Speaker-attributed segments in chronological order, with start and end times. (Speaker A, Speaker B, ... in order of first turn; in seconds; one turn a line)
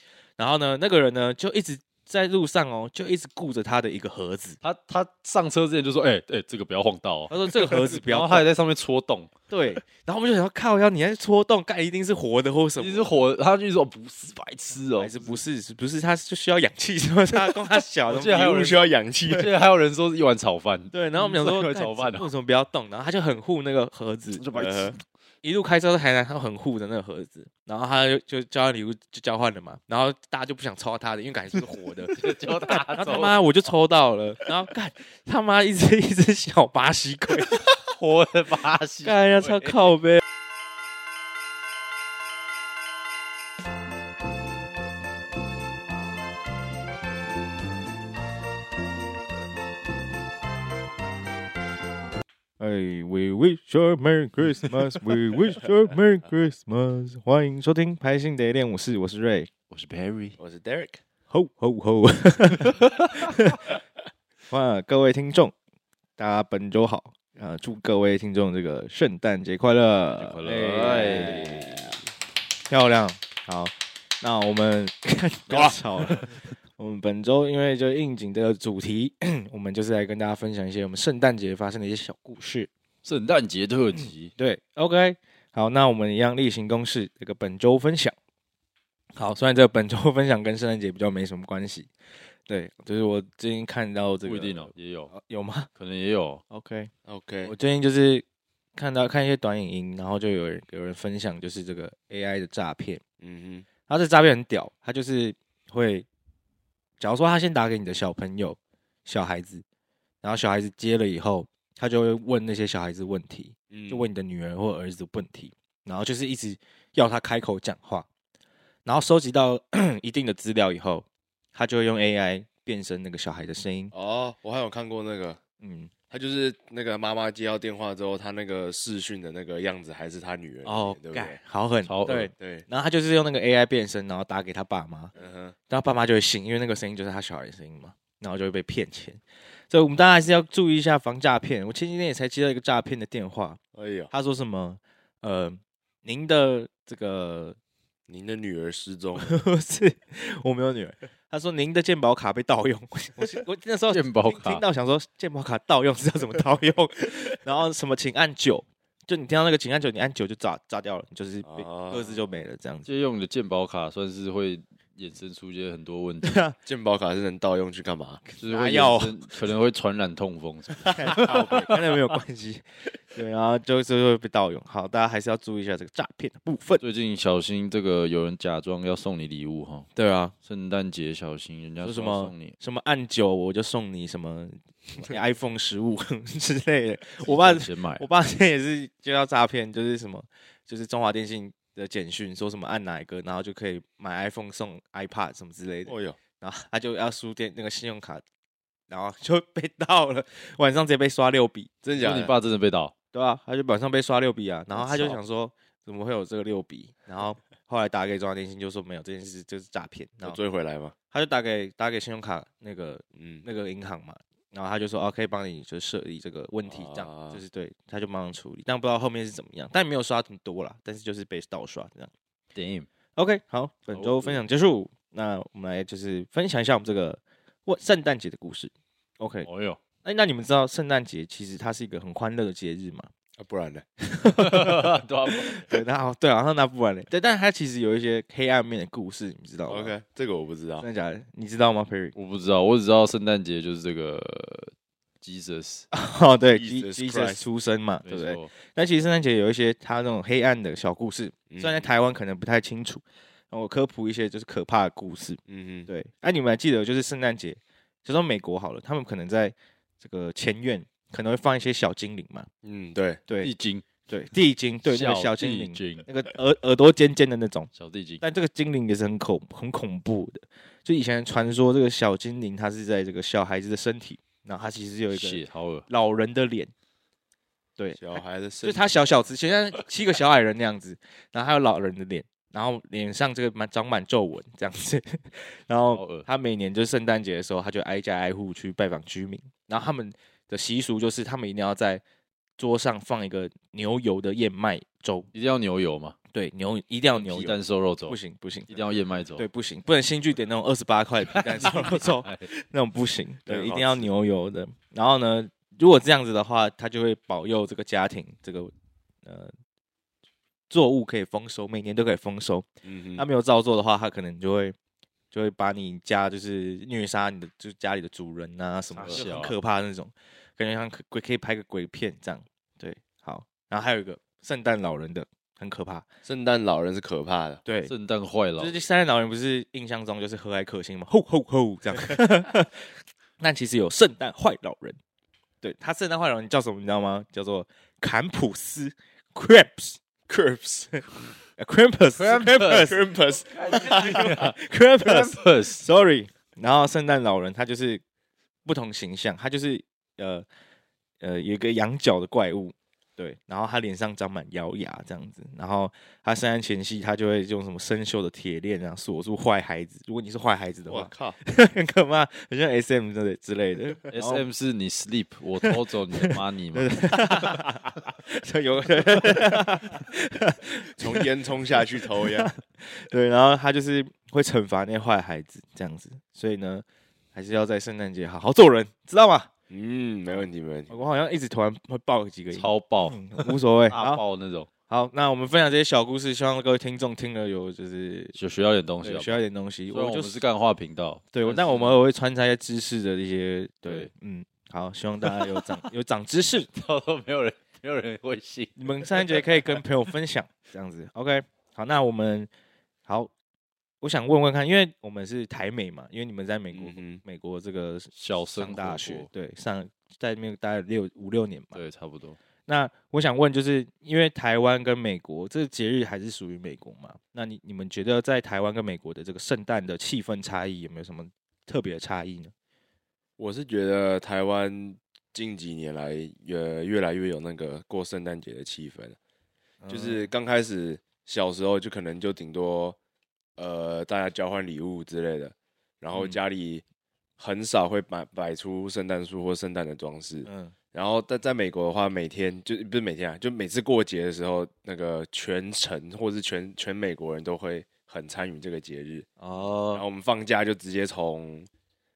Speaker A: 0.4-4.6
Speaker B: 4.6-9.3
Speaker A: 7.3-8.5
Speaker A: 9.5-13.1
Speaker B: 12.8-15.2
Speaker A: 15.0-18.7
Speaker B: 18.1-22.3
Speaker C: 18.3-19.5
Speaker A: 20.9-24.5
Speaker B: 24.4-24.9
Speaker C: 24.5-24.9
Speaker A: 25.4-32.2
Speaker B: 32.1-33.4
Speaker A: 32.9-37.6
Speaker B: 37.8-39.8
Speaker A: 39.0-40.2
Speaker A: 52.6-59.5
Speaker B: 59.7-60.4
Speaker C: 60.4-61.0
Speaker A: 61.3-63.6
Speaker A: 64.5-65.5
Speaker A: 66.2-71.9
Speaker B: 70.2-71.9
Speaker A: 72.7-82.7
Speaker B: 75.5-76.3
Speaker B: 83.0-84.3
Speaker A: 84.3-88.1
Speaker A: 89.2-91.9
Speaker A: 92.5-95.7
Speaker B: 94.2-95.1
Speaker B: 95.8-96.4
Speaker A: 96.5-96.9
Speaker C: 97.1-97.5
Speaker A: 97.4-98.2
Speaker A: 98.8-103.0
Speaker C: 103.2-103.7
Speaker A: 103.9-106.1
Speaker A: 107.0-109.6
Speaker A: 110.2-118.1
Speaker C: 113.7-114.1
Speaker A: 118.8-123.9
Speaker C: 123.9-125.4
Speaker A: 125.6-125.9
Speaker C: 126.1-131.4
Speaker A: 130.6-135.1
Speaker B: 131.8-132.3
Speaker C: 132.1-132.7
Speaker C: 135.1-135.5
Speaker A: 135.7-143.6
Speaker C: 143.7-144.1
Speaker A: 144.1-147.6
Speaker C: 148.1-149.2
Speaker A: 149.2-162.9
Speaker B: 153.9-154.6
Speaker C: 161.4-162.2
Speaker B: 162.8-166.4
Speaker A: 166.2-166.6
Speaker C: 166.7-168.2
Speaker B: 168.4-171.9
Speaker A: 168.4-169.2
Speaker A: 170.9-176.8
Speaker B: 176.8-179.9
Speaker A: 180.0-180.3
Speaker B: 180.4-182.5
Speaker A: 181.8-198.2
Speaker B: 187.2-188.1
Speaker C: 195.8-196.2
Speaker A: 198.9-201.7
Speaker C: 201.8-202.3
Speaker B: 202.0-202.9
Speaker A: 203.1-210.4
Speaker C: 204.8-205.2
Speaker C: 210.2-210.9
Speaker A: 211.1-222.1
Speaker C: 213.2-213.4
Speaker C: 216.7-217.4
Speaker B: 222.5-222.9
Speaker A: 223.1-229.5
Speaker B: 223.9-224.4
Speaker B: 229.4-229.8
Speaker A: 230.0-233.1
Speaker C: 233.4-233.8
Speaker A: 234.0-239.9
Speaker B: 234.4-235.7
Speaker C: 239.7-240.8
Speaker A: 240.8-242.1
Speaker B: 242.1-245.8
Speaker A: 245.9-262.5
Speaker C: 246.5-247.4
Speaker B: 248.0-248.5
Speaker C: 251.5-251.8
Speaker C: 255.5-255.9
Speaker C: 262.6-263.2
Speaker B: 263.4-263.9
Speaker A: 264.1-267.7
Speaker B: 264.9-266.1
Speaker B: 267.7-268.2
Speaker A: 268.2-276.7
Speaker B: 275.1-275.9
Speaker C: 278.0-278.9
Speaker A: 278.6-292.0
Speaker B: 285.9-286.3
Speaker A: 292.6-295.3
Speaker B: 295.3-296.2
Speaker A: 296.3-297.6
Speaker B: 297.1-298.2
Speaker A: 298.1-308.7
Speaker B: 298.7-299.4
Speaker B: 301.3-302.5
Speaker C: 303.5-304.1
Speaker A: 309.2-309.5
Speaker A: 310.7-314.7
Speaker C: 312.8-313.2
Speaker A: 315.3-326.1
Speaker B: 318.9-319.5
Speaker C: 326.2-327.6
Speaker A: 327.6-327.9
Speaker B: 327.9-328.8
Speaker A: 328.6-332.9
Speaker A: 333.4-335.0
Speaker A: 335.6-340.0
Speaker C: 340.3-341.0
Speaker A: 341.6-348.0
Speaker B: 342.1-343.0
Speaker C: 342.9-344.5
Speaker B: 343.5-345.9
Speaker A: 348.6-350.4
Speaker A: 351.2-364.4
Speaker C: 360.9-361.4
Speaker B: 364.1-367.4
Speaker A: 365.6-371.2
Speaker C: 371.0-372.5
Speaker A: 372.2-379.5
Speaker C: 379.7-380.9
Speaker A: 380.9-384.2
Speaker B: 382.5-384.7
Speaker A: 384.9-388.3
Speaker B: 388.3-392.0
Speaker A: 389.0-390.3
Speaker A: 391.3-396.7
Speaker B: 395.2-395.6
Speaker B: 396.7-399.4
Speaker A: 398.8-402.5
Speaker A: 403.1-403.3
Speaker A: 404.0-411.8
Speaker C: 406.7-407.2
Speaker B: 408.1-409.3
Speaker B: 411.7-412.4
Speaker A: 412.6-422.5
Speaker C: 423.4-429.2
Speaker A: 429.8-430.3
Speaker C: 429.9-433.0
Speaker C: 433.6-436.8
Speaker C: 437.4-449.3
Speaker A: 440.4-440.7
Speaker A: 449.4-450.0
Speaker C: 449.9-451.7